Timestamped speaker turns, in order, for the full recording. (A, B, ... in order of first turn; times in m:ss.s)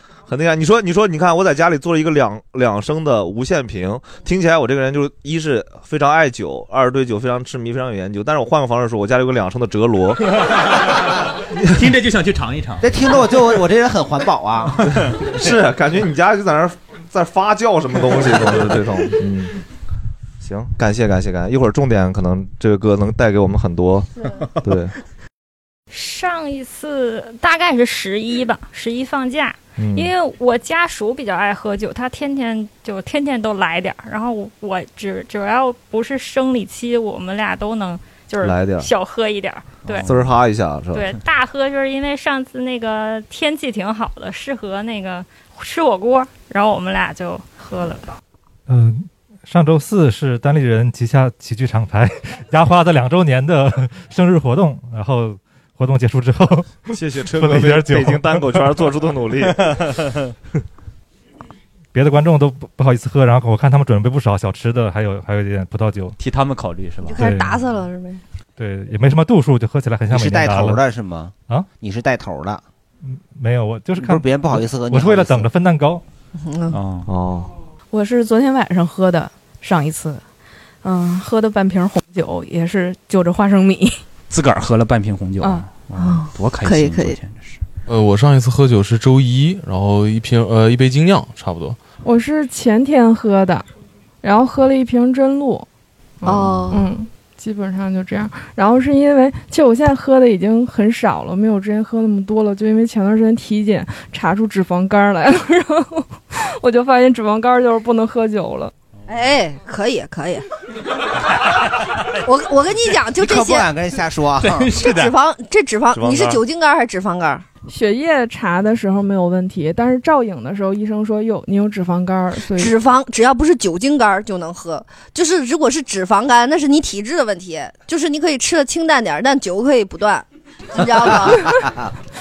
0:00.3-0:10.2 A
0:11.7-0:12.9 B
0:12.8-0:14.8 C
0:15.0-0:19.6 A
0:20.4-0:24.1 A
0:24.6-0:24.9 A
0:25.9-0:40.1 D
0:29.8-0:30.1 A
0:38.4-0:38.9 A
0:39.9-0:40.1 B
0:40.0-0:41.1 A
0:40.9-0:48.2 D
0:48.7-0:58.5 E
0:56.9-0:59.8 A
1:01.9-1:06.2 E
1:06.2-1:07.2 B
1:07.0-1:08.2 F
1:07.1-1:07.6 E
1:08.6-1:10.8 E
1:10.1-1:12.6 C
1:13.0-1:16.0 E
1:14.0-1:15.5 C
1:16.4-1:16.8 F
1:16.7-1:17.1 B
1:17.0-1:17.5 A
1:17.9-1:20.2 G
1:20.8-1:24.0 G
1:24.3-1:27.6 B
1:25.4-1:25.6 G
1:26.0-1:27.2 F
1:27.9-1:31.8 H
1:32.0-1:33.6 I
1:34.2-1:35.7 I
1:36.2-1:36.9 F
1:36.7-1:48.7 I
1:49.1-1:50.4 F
1:52.2-1:53.7 F
1:53.2-1:54.8 C
1:54.4-1:55.1 B
1:54.8-1:57.4 F
1:55.9-1:56.4 A
1:57.7-2:02.8 I
2:02.5-2:11.6 F